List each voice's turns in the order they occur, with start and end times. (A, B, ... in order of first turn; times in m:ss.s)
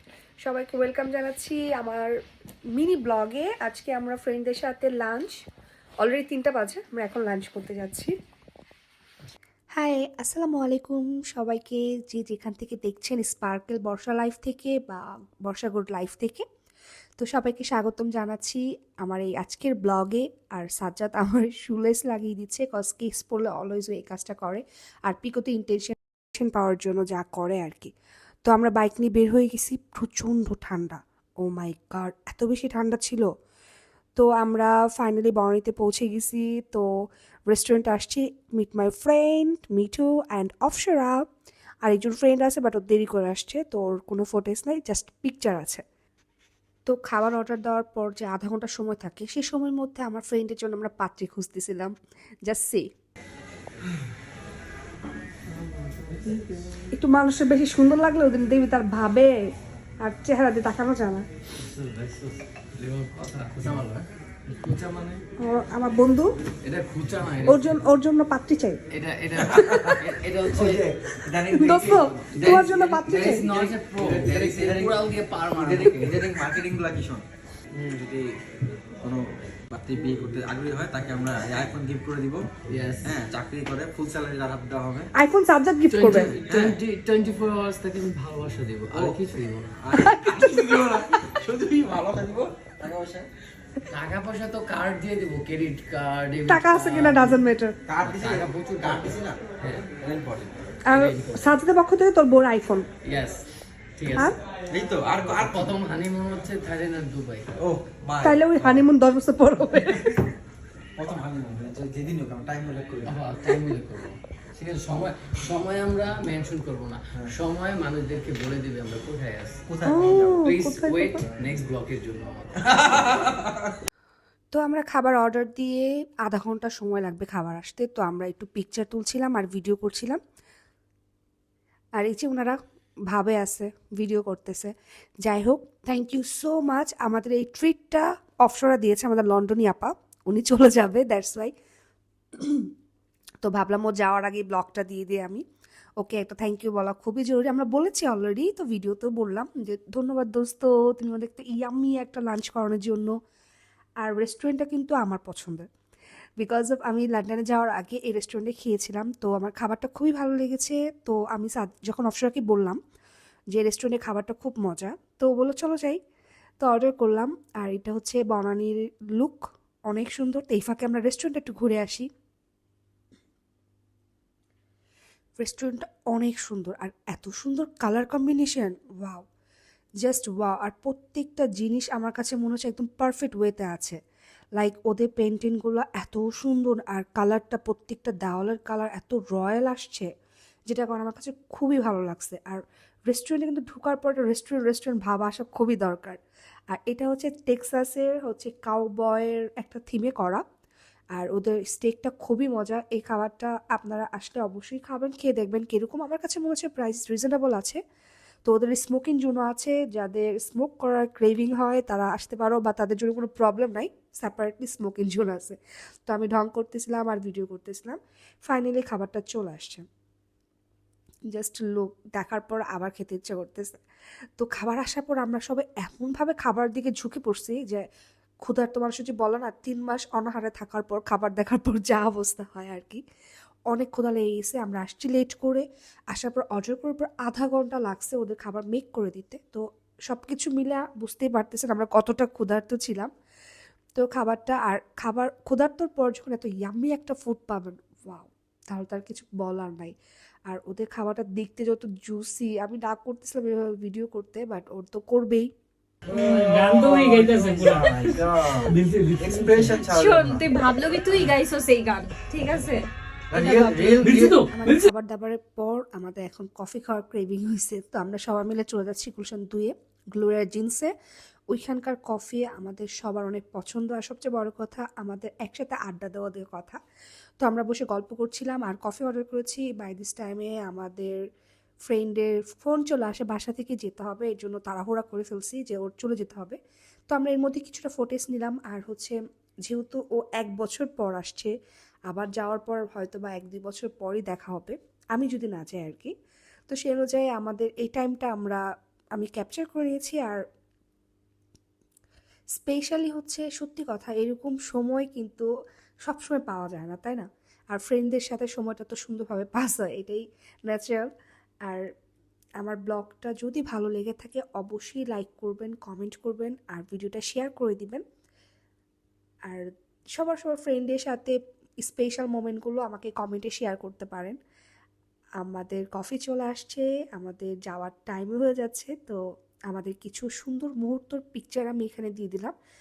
0:00.4-0:02.1 A
0:02.7-0:05.3 A
0:06.0-0:08.1 A
0:09.7-0:16.4 A
0:17.2-0:27.9 A
0:28.4-0:33.3 A
0:34.2-0:36.9 A
0:37.5-0:41.2 A
0:41.8-0:45.8 A
0:46.9-0:51.9 A
0:52.5-0:52.9 A
0:55.8-0:56.2 B
0:56.3-0:59.5 A
1:00.0-1:01.2 A
1:01.6-1:05.2 B
1:05.4-1:06.3 A
1:06.6-1:07.8 B
1:07.4-1:08.8 A
1:08.9-1:10.8 B
1:09.4-1:12.6 C
1:11.5-1:13.5 A
1:12.3-1:16.3 B
1:13.3-1:15.0 C
1:15.5-1:17.2 C
1:17.8-1:18.3 C
1:19.0-1:22.5 C
1:22.7-1:23.1 B
1:23.0-1:25.1 C
1:25.1-1:26.4 A
1:25.9-1:29.8 B
1:26.2-1:26.8 C
1:28.9-1:29.2 C
1:29.8-1:33.3 C
1:30.0-1:30.7 A
1:33.9-1:37.4 B
1:36.5-1:37.7 A
1:37.9-1:39.4 C
1:38.0-1:39.9 B
1:40.0-1:40.5 C
1:40.8-1:41.6 B
1:40.8-1:42.8 A
1:43.0-1:43.4 B
1:44.0-1:44.3 B
1:44.7-1:45.8 C
1:45.3-1:47.5 B
1:47.6-1:48.8 C
1:48.2-1:50.3 A
1:51.0-1:53.2 C
1:53.0-1:59.6 B
1:59.7-2:00.5 C
1:59.8-2:01.2 A
2:00.4-2:03.3 B
2:04.5-2:10.2 A
2:12.0-2:12.6 A
2:13.1-2:21.5 A
2:22.3-2:22.7 A
2:23.4-2:25.4 A
2:26.0-2:33.1 A
2:34.0-2:35.6 A
2:36.4-2:42.8 A
2:43.5-2:46.0 A
2:46.6-2:52.1 A
2:55.4-2:59.2 A
3:00.0-3:04.0 A
3:04.6-3:10.1 A
3:10.7-3:16.2 A
3:16.7-3:20.4 A
3:21.1-3:27.8 A
3:28.4-3:39.8 A
3:41.3-3:43.8 A
3:44.4-3:47.8 A
3:48.4-3:53.0 A
3:53.7-4:03.1 A
4:04.0-4:09.9 A
4:10.5-4:15.5 A
4:16.1-4:19.8 B
4:16.1-4:20.5 C
4:17.6-4:18.0 D
4:19.9-4:22.9 D
4:23.3-4:24.2 C
4:23.3-4:30.9 A
4:24.0-4:24.9 B
4:31.5-4:36.8 A
4:37.4-4:41.2 A
4:41.8-4:46.6 A
4:47.1-4:51.5 A
4:52.1-4:56.1 A
4:56.7-4:58.6 A
4:59.1-5:00.4 A
5:02.6-5:05.5 A
5:06.0-5:11.1 A
5:12.6-5:18.0 A
5:19.5-5:24.4 A
5:25.4-5:32.5 A